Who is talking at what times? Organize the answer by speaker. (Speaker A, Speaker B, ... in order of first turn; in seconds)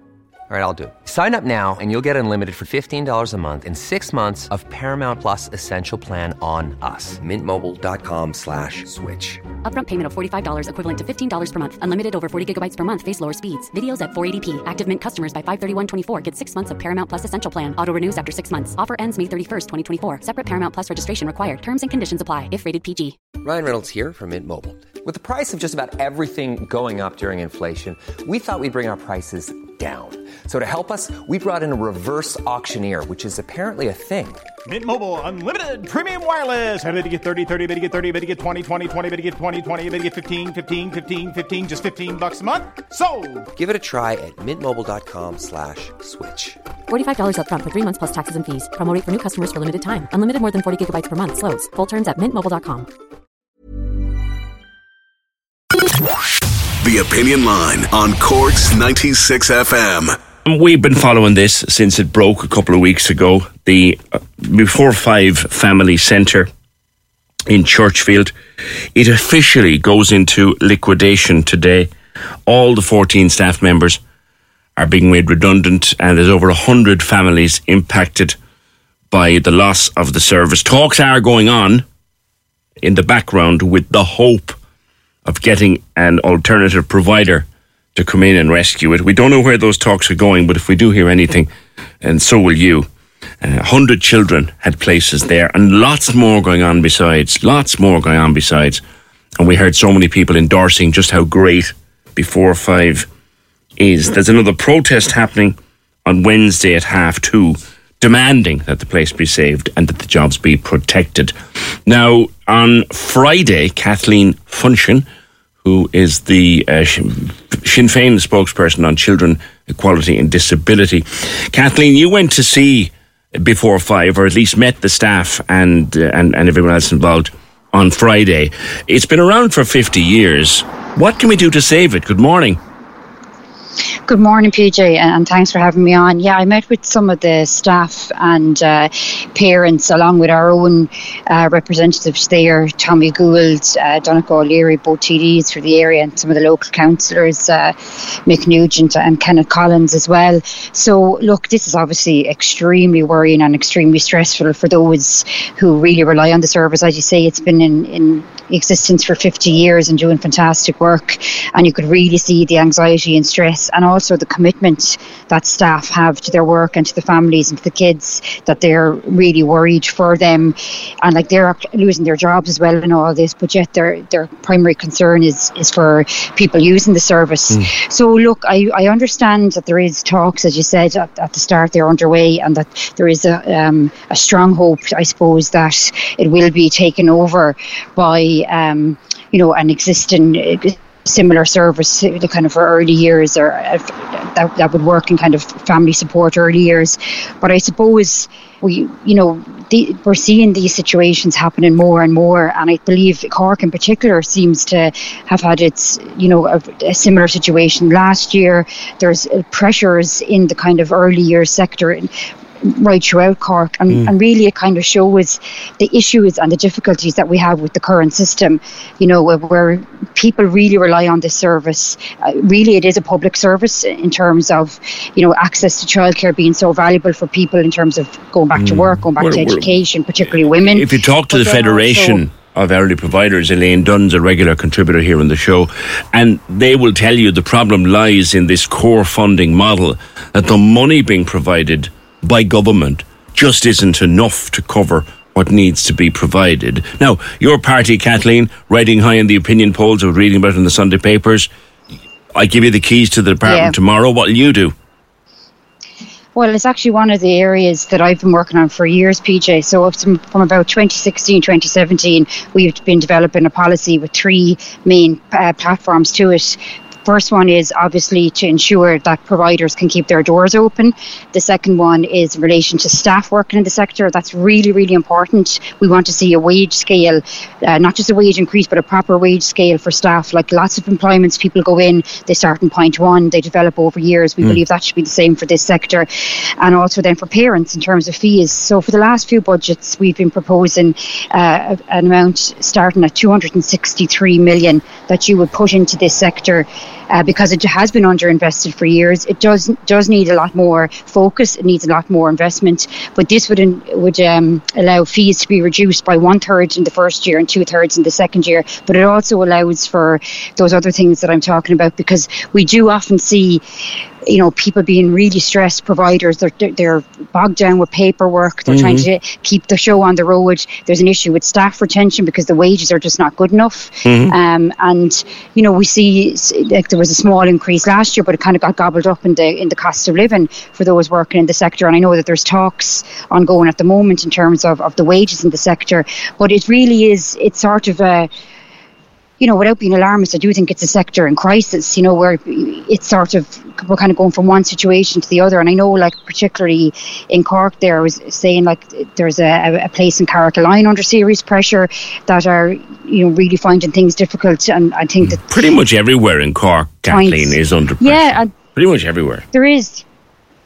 Speaker A: 0.5-9.4, 23.3-34.4, 43.5-46.6
Speaker B: 9.6-23.3, 46.9-52.9
Speaker C: 34.6-43.5
Speaker D: 56.8-60.1
Speaker E: 60.4-66.5, 67.5-68.3, 68.9-71.9, 72.5-74.0, 74.8-78.3, 79.1-81.8, 82.8-84.6, 85.2-91.5, 92.0-92.9, 93.4-98.8, 99.4-103.1, 103.8-111.3, 111.8-115.0, 115.6-132.6, 228.6-229.7, 230.7-251.5, 252.3-254.7, 318.7-319.1, 324.0-324.3, 355.3-359.4
Speaker F: 134.1-232.2, 253.4-253.7, 256.3-313.6, 314.2-338.3, 339.4-355.5, 357.1-358.5, 359.5-360.0